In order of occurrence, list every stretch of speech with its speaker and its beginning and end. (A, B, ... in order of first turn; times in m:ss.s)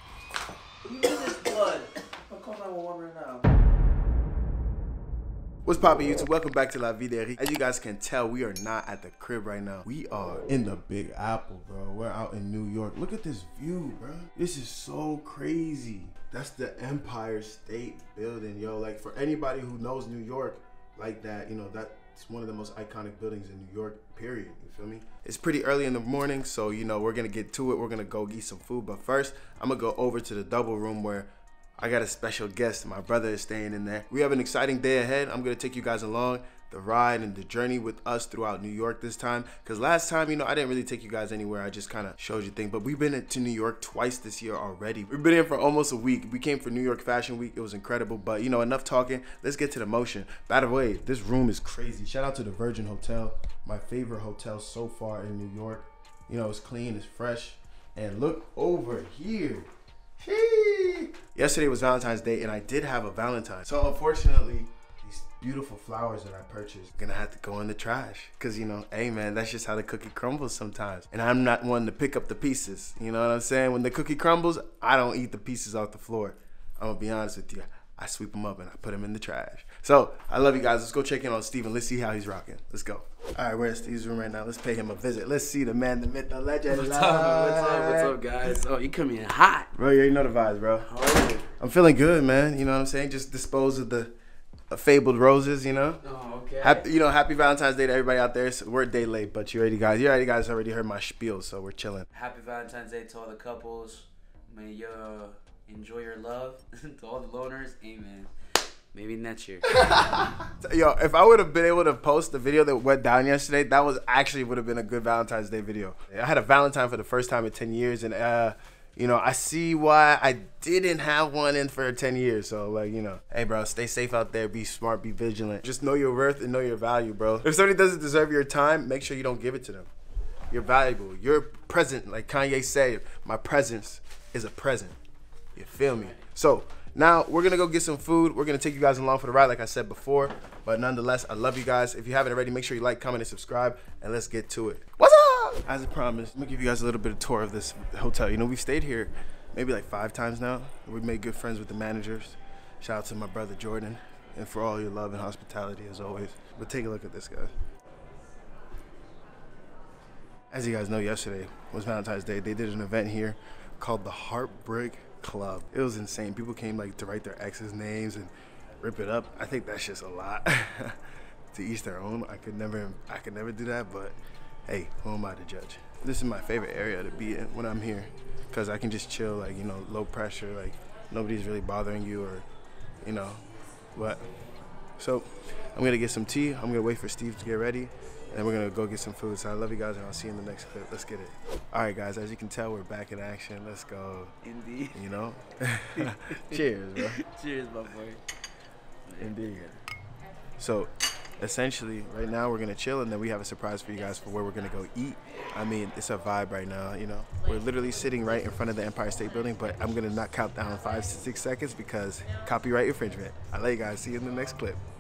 0:00.8-0:03.5 A
0:05.6-1:28.1 B
1:26.7-1:29.7 A
1:29.7-1:30.9 B
1:30.8-1:31.5 A
1:31.6-1:34.1 B
1:34.7-1:36.0 B
1:36.0-1:36.8 A
1:36.6-1:42.1 B
1:42.1-1:48.3 A
1:48.9-1:49.6 A
1:49.7-2:09.9 B
2:10.5-2:15.0 B
2:15.6-2:37.5 B
2:15.7-2:16.2 A
2:40.5-2:51.0 B
2:51.5-2:54.2 B
2:54.7-3:02.4 B
3:03.0-3:03.4 B
3:03.9-3:04.2 B
3:05.0-3:14.3 B
3:14.4-3:15.0 A
3:14.9-3:17.2 B
3:16.0-3:18.2 A
3:19.1-3:19.5 A
3:19.2-3:19.8 B
3:20.6-3:34.8 B